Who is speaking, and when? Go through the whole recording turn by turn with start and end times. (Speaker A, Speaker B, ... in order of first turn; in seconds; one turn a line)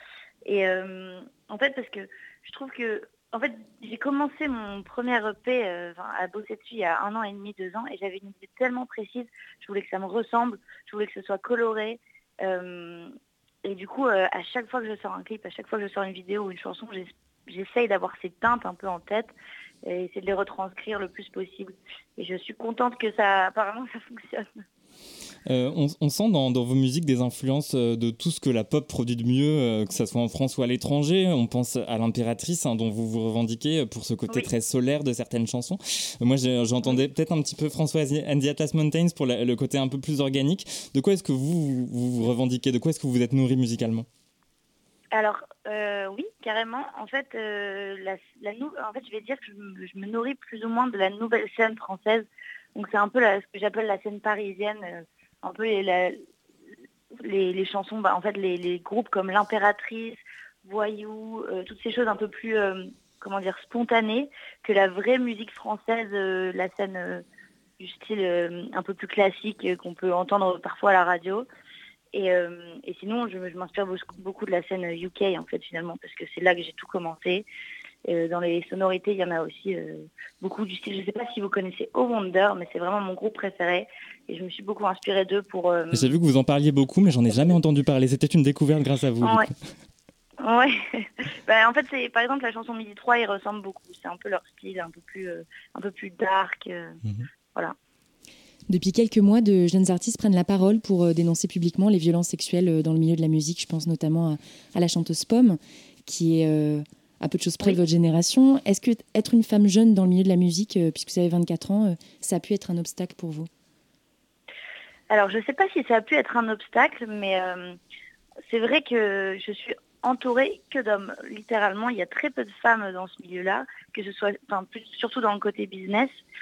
Speaker A: 0.5-13.1
Speaker A: 13.7-19.3
Speaker A: 19.9-24.5
Speaker B: 25.5-44.1
Speaker A: 45.1-56.2
Speaker A: 57.2-67.2
Speaker A: 67.8-71.5
Speaker A: 72.1-77.5
Speaker A: 78.1-86.1
Speaker B: 85.9-89.5
Speaker A: 89.2-89.5
Speaker A: 90.4-97.0
Speaker C: 98.7-113.5
Speaker A: 115.1-117.8
Speaker A: 118.5-126.2